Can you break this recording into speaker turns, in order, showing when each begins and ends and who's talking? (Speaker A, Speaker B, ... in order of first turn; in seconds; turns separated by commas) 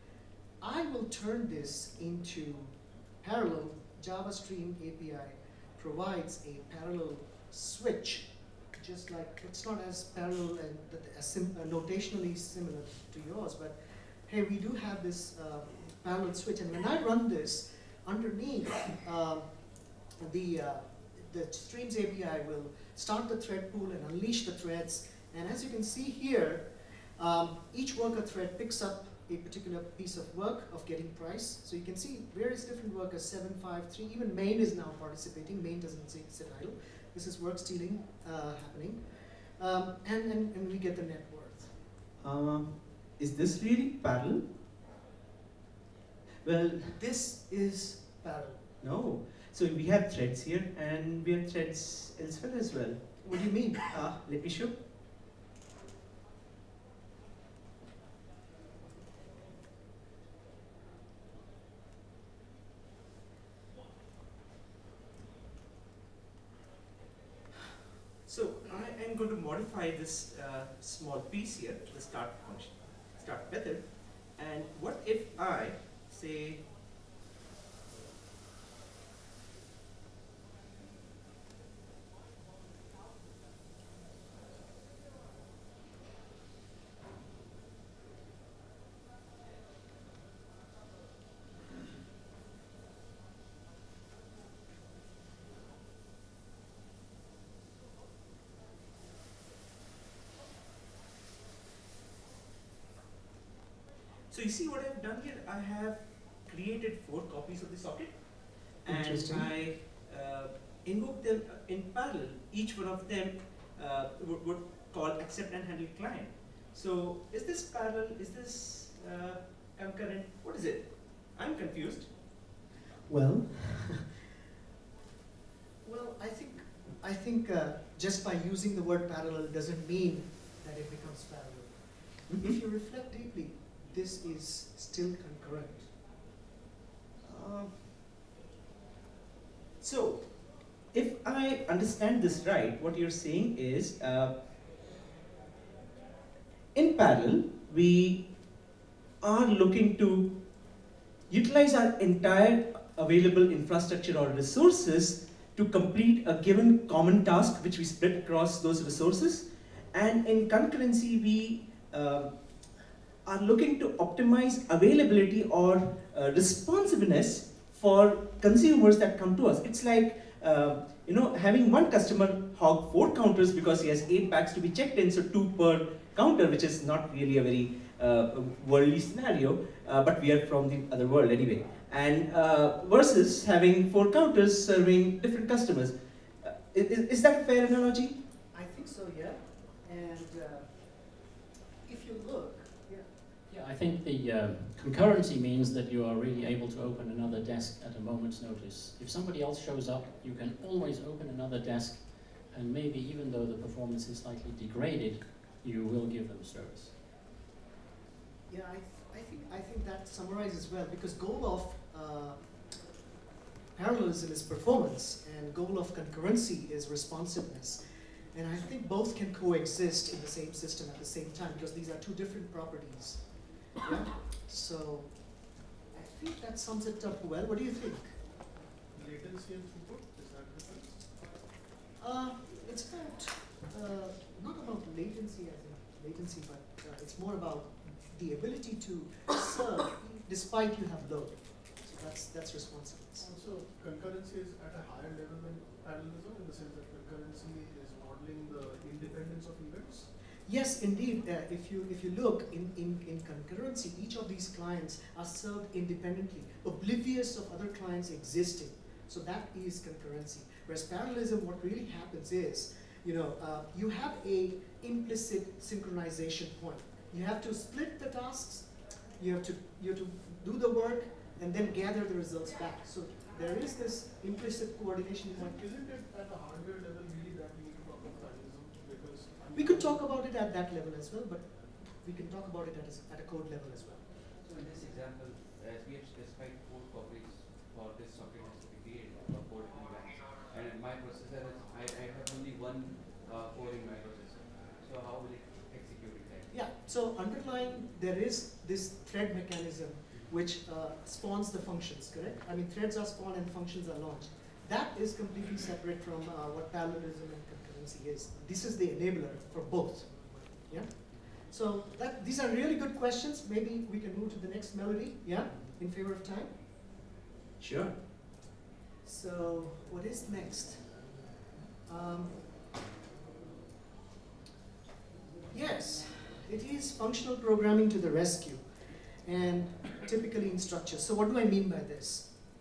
Speaker A: 0.6-19.5, Speaker A: 20.1-41.7, Speaker B: 42.2-44.4, Speaker B: 46.4-47.0, Speaker A: 46.9-48.6, Speaker B: 48.8-53.3, Speaker A: 53.2-54.1, Speaker B: 53.9-54.8, Speaker B: 68.3-76.7, Speaker B: 104.3-122.1, Speaker A: 108.9-109.5, Speaker A: 123.1-124.2, Speaker A: 125.8-135.9, Speaker B: 132.3-132.6, Speaker B: 137.2-137.9, Speaker B: 139.8-144.3, Speaker B: 146.8-148.3, Speaker B: 149.2-150.3, Speaker B: 151.3-162.3, Speaker B: 163.2-188.2, Speaker A: 188.5-190.7, Speaker A: 191.8-193.1, Speaker C: 193.5-206.9, Speaker A: 208.5-212.4, Speaker A: 213.8-217.8, Speaker A: 218.3-223.3, Speaker A: 223.8-228.1, Speaker D: 228.9-231.0, Speaker A: 232.0-243.3, Speaker D: 243.2-250.1, Speaker A: 250.5-275.6, Speaker D: 275.4-280.0, Speaker A: 279.5-284.1, Speaker E: 284.4-296.5, Speaker A: 296.5-316.5, Speaker B: 317.6-318.0, Speaker A: 319.0-321.1, Speaker A: 321.9-322.6, Speaker A: 325.5-332.3